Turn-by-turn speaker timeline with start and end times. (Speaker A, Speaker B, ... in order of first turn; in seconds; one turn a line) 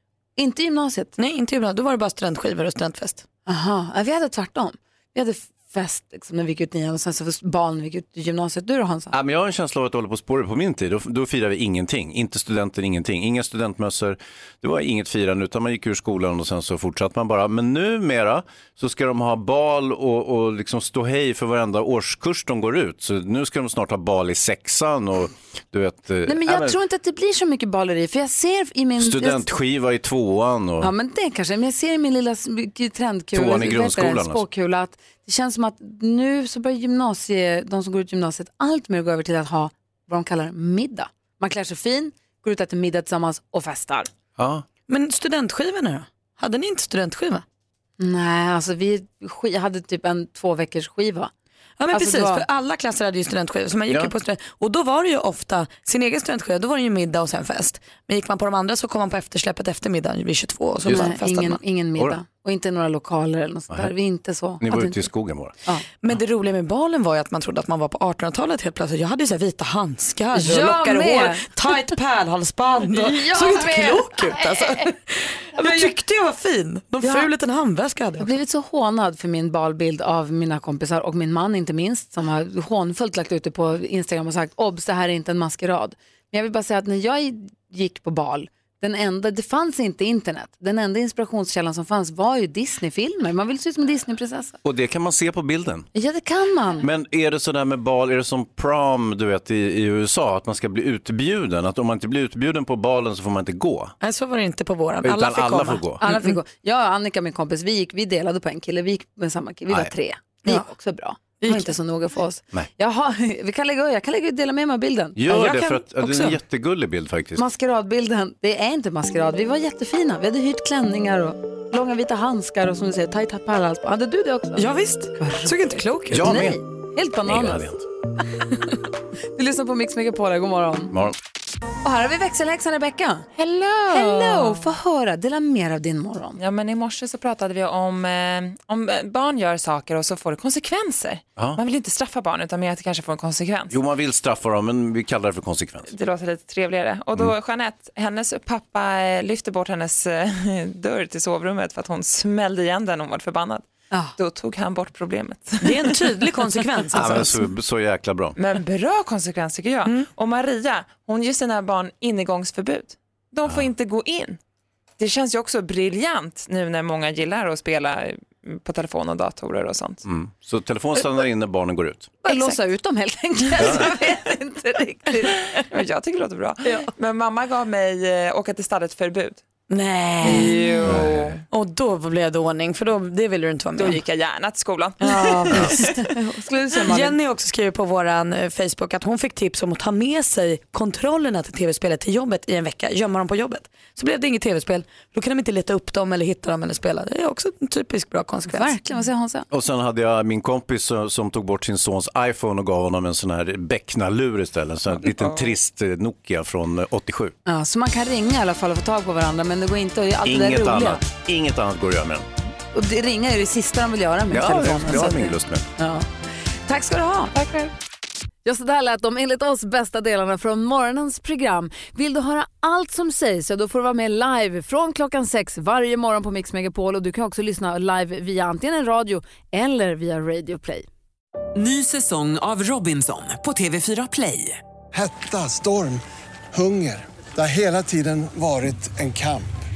Speaker A: 0.4-1.2
Speaker B: 1.2-3.2
Speaker A: 3.5-9.1
Speaker C: 9.1-26.8
Speaker A: 26.3-29.5
Speaker C: 29.0-30.9
Speaker A: 30.8-44.1
Speaker C: 33.3-34.4
Speaker C: 44.4-44.6
Speaker B: 44.9-47.4
Speaker A: 48.0-51.3
Speaker B: 51.8-61.6
Speaker A: 51.9-52.5
Speaker C: 60.9-61.1
Speaker A: 60.9-65.0
Speaker C: 64.6-65.5
Speaker B: 66.0-78.3
Speaker A: 70.3-71.8
Speaker A: 72.9-74.9
Speaker A: 75.6-75.9
Speaker A: 77.0-77.3
Speaker A: 78.2-94.6
Speaker C: 94.6-95.9
Speaker A: 95.9-96.9
Speaker C: 96.8-104.0
Speaker B: 104.0-106.3
Speaker C: 105.0-106.0
Speaker A: 106.0-115.2
Speaker B: 111.4-111.7
Speaker C: 115.2-117.4
Speaker B: 115.3-116.4
Speaker A: 117.4-127.7
Speaker B: 124.6-126.4
Speaker C: 126.1-126.6
Speaker C: 127.3-127.8
Speaker A: 129.4-130.9
Speaker A: 131.8-133.3
Speaker D: 133.3-134.7
Speaker A: 133.9-136.4
Speaker D: 136.4-143.7
Speaker C: 143.7-145.9
Speaker D: 145.9-156.4
Speaker B: 155.6-157.4
Speaker C: 156.9-158.4
Speaker D: 158.4-164.4
Speaker D: 165.0-170.0
Speaker C: 170.1-172.2
Speaker A: 172.2-175.6
Speaker C: 173.6-173.9
Speaker D: 175.6-179.4
Speaker B: 176.7-176.9
Speaker B: 179.7-180.8
Speaker D: 180.2-181.4
Speaker C: 180.8-181.3
Speaker B: 181.5-184.0
Speaker D: 183.8-185.2
Speaker B: 185.0-185.9
Speaker A: 185.1-187.2
Speaker B: 186.8-198.8
Speaker A: 198.5-199.5
Speaker C: 199.5-207.3
Speaker D: 205.1-205.5
Speaker A: 207.5-211.0
Speaker C: 210.2-212.2
Speaker A: 212.7-216.1
Speaker C: 214.3-215.7
Speaker A: 216.7-217.7
Speaker A: 218.4-230.9
Speaker E: 231.6-234.6
Speaker F: 234.9-236.0
Speaker F: 236.5-239.5